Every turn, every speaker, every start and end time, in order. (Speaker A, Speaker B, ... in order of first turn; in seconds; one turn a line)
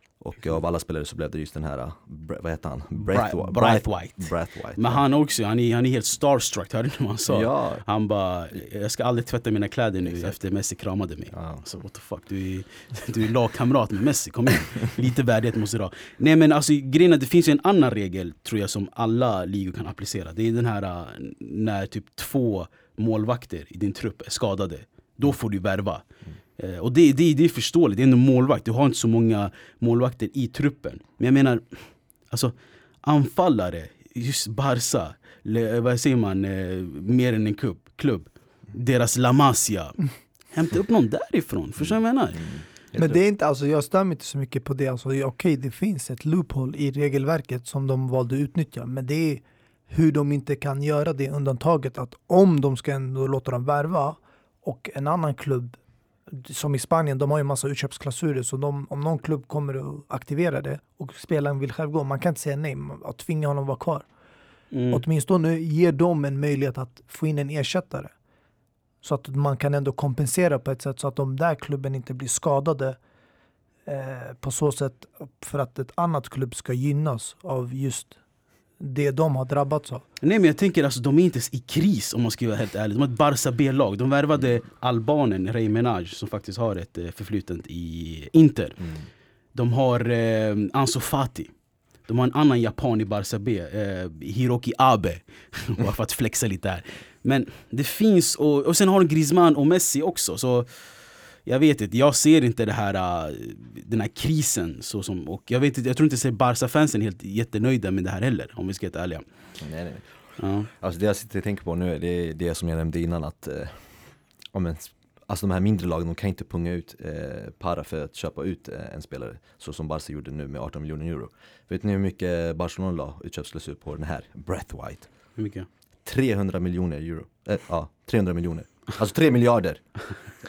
Speaker A: 0.2-5.0
Speaker B: 3.0-26.0
Speaker A: 7.3-7.8
Speaker A: 11.3-11.6
Speaker B: 26.6-42.5
Speaker A: 42.4-42.6
Speaker C: 43.0-55.8
Speaker C: 56.3-64.1
Speaker B: 64.7-65.0
Speaker C: 64.9-68.1
Speaker C: 69.0-73.0
Speaker C: 73.9-78.2
Speaker C: 78.8-80.0
Speaker B: 80.2-88.9
Speaker B: 89.5-91.5
Speaker B: 92.0-100.7
Speaker B: 101.5-109.2
Speaker A: 109.6-110.0
Speaker B: 110.4-110.7
Speaker A: 110.7-113.8
Speaker A: 114.5-125.1
Speaker B: 125.4-125.7
Speaker A: 126.0-129.8